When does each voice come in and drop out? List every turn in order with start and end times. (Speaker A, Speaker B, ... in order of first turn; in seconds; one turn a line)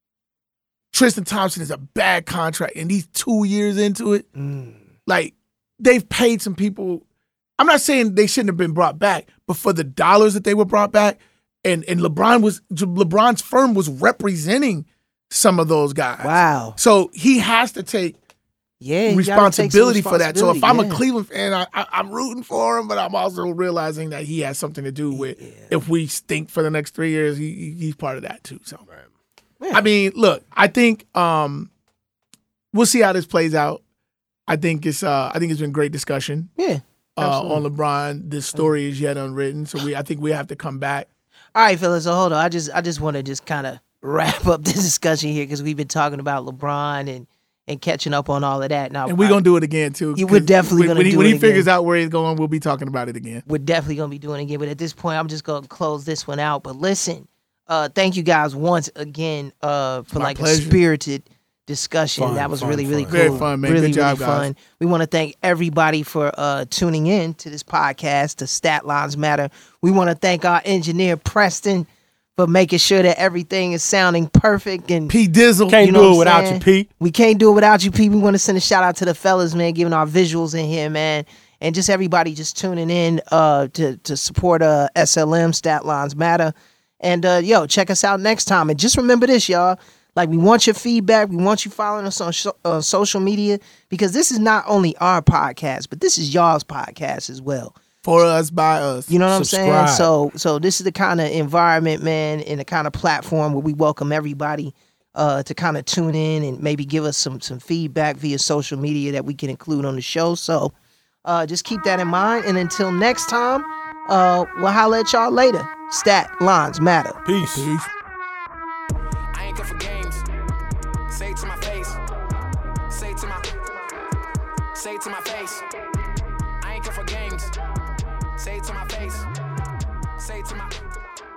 Speaker A: 0.9-4.3
Speaker B: 4.4-4.8
Speaker A: 5.1-7.0
Speaker A: 7.6-18.2
Speaker B: 16.2-16.8
Speaker B: 18.8-21.0
Speaker A: 19.1-28.8
Speaker B: 25.1-25.7
Speaker A: 29.7-31.7
Speaker A: 32.7-33.8
Speaker A: 34.5-36.5
Speaker B: 36.6-37.6
Speaker A: 37.2-41.1
Speaker B: 41.5-49.4
Speaker A: 49.1-53.4
Speaker B: 50.2-51.7
Speaker B: 53.5-75.2
Speaker A: 60.1-60.8
Speaker C: 62.2-63.4
Speaker A: 63.1-64.5
Speaker A: 75.1-76.0
Speaker C: 75.7-76.9
Speaker B: 75.8-97.8
Speaker A: 98.0-99.1
Speaker B: 99.1-110.7
Speaker C: 99.3-100.1
Speaker B: 111.2-117.2
Speaker C: 117.2-117.7
Speaker A: 117.4-117.9
Speaker D: 119.3-120.2
Speaker D: 121.1-122.0
Speaker D: 122.9-124.0
Speaker D: 124.8-125.7
Speaker D: 126.6-127.5
Speaker D: 128.4-129.3
Speaker D: 130.2-130.9